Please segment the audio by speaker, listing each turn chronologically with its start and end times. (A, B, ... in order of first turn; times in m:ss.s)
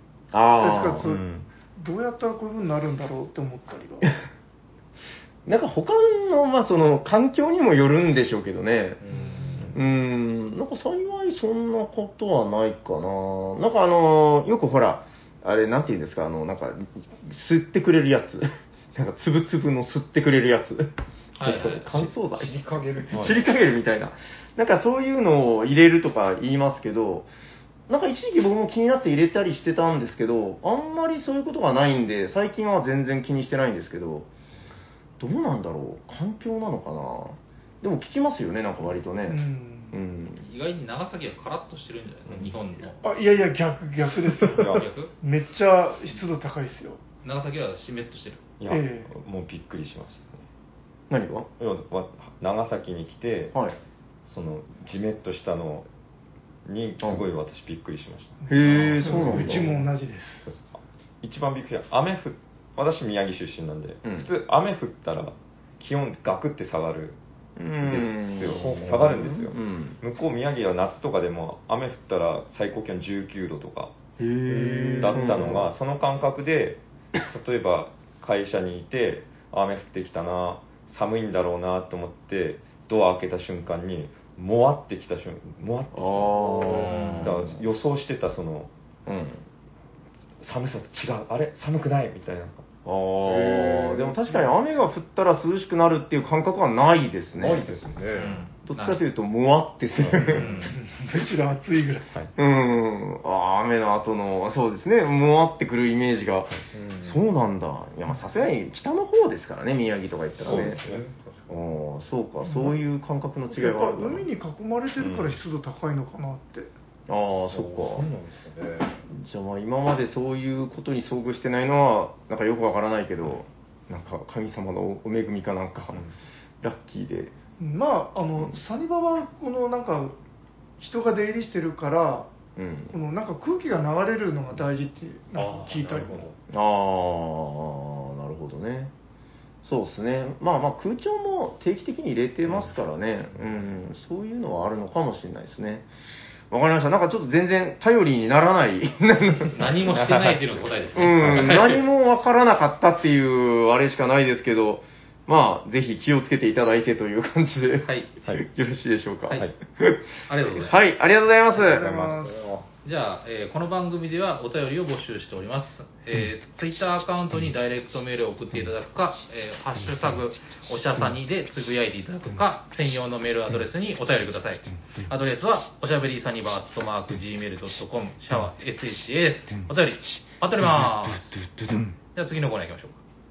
0:00.3-0:01.0 A
0:00.6-0:01.2 B
0:01.0-0:01.5 C
0:01.8-0:04.1 B
0:05.4-0:09.0 A
0:09.0-0:09.7 D
0:09.2-0:09.7 B
0:09.7-0:22.6 A
0:21.4-0:22.0 E
0:22.4-0:23.4 D
0:23.1-0:27.3 A
0:27.9-0:34.3 A
0:35.2-0:40.4 A
0:39.3-0:40.0 B
0:40.4-0:43.0 E
0:43.0-0:47.0 B
0:44.4-0:44.9 C
0:44.6-0:45.1 E
0:47.2-0:48.4 E
0:48.6-0:50.4 C
0:48.7-0:49.1 B
0:51.1-0:51.5 A
0:51.6-0:53.6 C
0:54.3-0:55.8 C
0:56.7-0:59.8 C
0:58.4-1:00.4 B
0:58.5-0:59.7 A
1:00.4-1:07.2 C
1:04.0-1:04.3 A
1:07.6-1:10.0 A
1:07.8-1:13.9 C
1:08.5-1:09.4 D
1:14.2-1:15.7 A
1:14.5-1:15.5 D
1:15.0-1:28.7 C
1:25.9-1:27.6 A
1:26.8-1:27.3 E
1:29.0-1:29.4 A
1:30.4-1:32.7 C
1:32.8-1:37.7 A
1:33.2-1:34.4 D
1:37.4-1:38.4 D
1:38.1-1:39.0 E
1:38.6-1:40.7 A
1:40.0-1:40.4 C
1:40.3-1:40.8 E
1:40.6-1:42.1 B
1:42.4-1:50.8 A
1:46.7-1:47.2 D
1:50.4-1:51.5 D
1:50.4-1:51.0 C
1:51.5-1:54.3 A
1:52.4-1:52.8 B
1:53.5-1:56.7 B
1:55.0-1:55.4 C
1:57.1-1:58.1 A
1:57.5-1:59.0 D
1:59.1-2:06.0 A
2:06.6-2:07.3 A
2:07.6-2:10.1 B
2:10.8-2:12.3 B
2:12.6-2:13.0 A
2:12.9-2:16.2 B
2:15.3-2:16.4 D
2:16.5-2:18.9 A
2:19.6-2:25.8 A
2:26.5-2:30.1 A
2:29.5-2:31.8 E
2:30.0-2:30.4 C
2:31.0-2:40.0 A
2:37.8-2:38.1 E
2:40.3-2:40.8 E
2:40.5-2:41.9 A
2:41.6-2:42.4 B
2:41.6-2:42.6 D
2:42.8-3:01.3 E
3:00.7-3:01.9 A
3:02.1-3:03.0 E